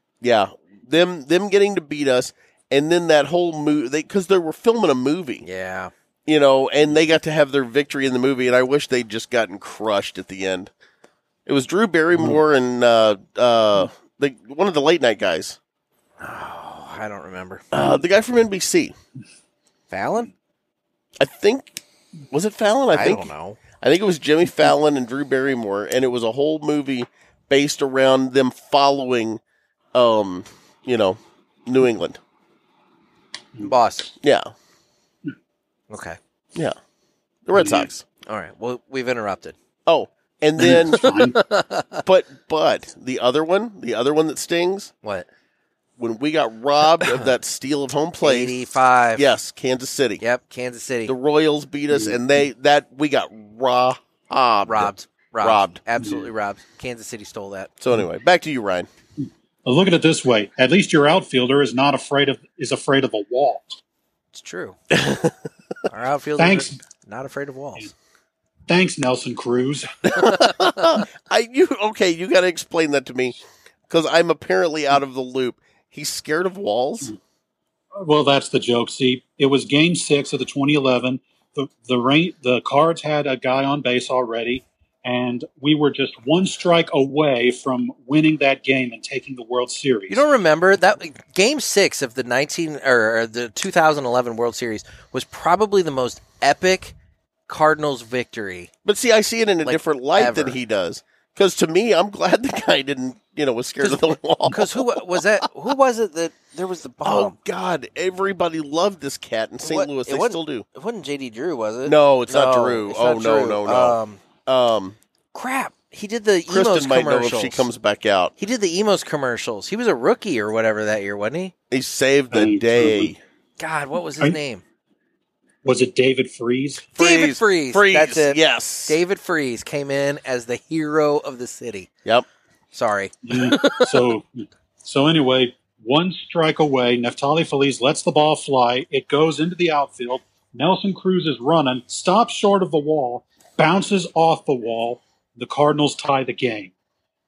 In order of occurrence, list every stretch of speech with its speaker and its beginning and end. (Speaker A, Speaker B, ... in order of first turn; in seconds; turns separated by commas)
Speaker A: 0.2-5.4, Speaker B: 5.4-5.9, Speaker A: 6.2-10.7, Speaker A: 11.4-15.6, Speaker B: 16.2-17.7, Speaker A: 17.7-18.9, Speaker B: 19.9-20.3, Speaker A: 21.2-29.4, Speaker B: 22.9-23.6, Speaker A: 29.9-32.2, Speaker B: 33.6-34.1, Speaker A: 34.2-34.5, Speaker B: 35.9-36.2, Speaker A: 37.5-38.0, Speaker C: 37.5-37.9, Speaker B: 38.3-39.5, Speaker A: 39.9-41.0, Speaker C: 40.6-41.4, Speaker B: 41.0-42.0, Speaker A: 42.0-44.9, Speaker A: 46.0-48.5, Speaker B: 47.0-47.3, Speaker B: 48.2-49.3, Speaker A: 49.1-50.2, Speaker B: 50.2-51.1, Speaker A: 51.0-55.8, Speaker C: 51.9-52.2, Speaker B: 54.7-57.7, Speaker C: 56.0-56.3, Speaker A: 57.8-58.9, Speaker C: 59.6-63.8, Speaker B: 64.3-64.8, Speaker A: 64.9-65.3, Speaker B: 65.9-67.9, Speaker C: 66.4-66.8, Speaker C: 68.7-69.9, Speaker A: 70.0-77.1, Speaker B: 70.2-70.5, Speaker C: 78.0-90.2, Speaker B: 90.1-96.9, Speaker B: 97.5-98.7, Speaker A: 98.8-105.4, Speaker B: 99.6-100.6, Speaker B: 103.8-107.3, Speaker A: 107.0-110.6, Speaker B: 109.6-114.2, Speaker A: 111.8-115.0, Speaker B: 115.3-117.7, Speaker A: 116.5-118.3, Speaker B: 118.4-121.5, Speaker A: 121.7-123.2, Speaker C: 122.3-123.1, Speaker B: 123.6-124.6, Speaker C: 125.6-126.8, Speaker A: 126.9-129.0, Speaker B: 127.0-131.9, Speaker B: 132.7-133.8, Speaker C: 133.2-146.7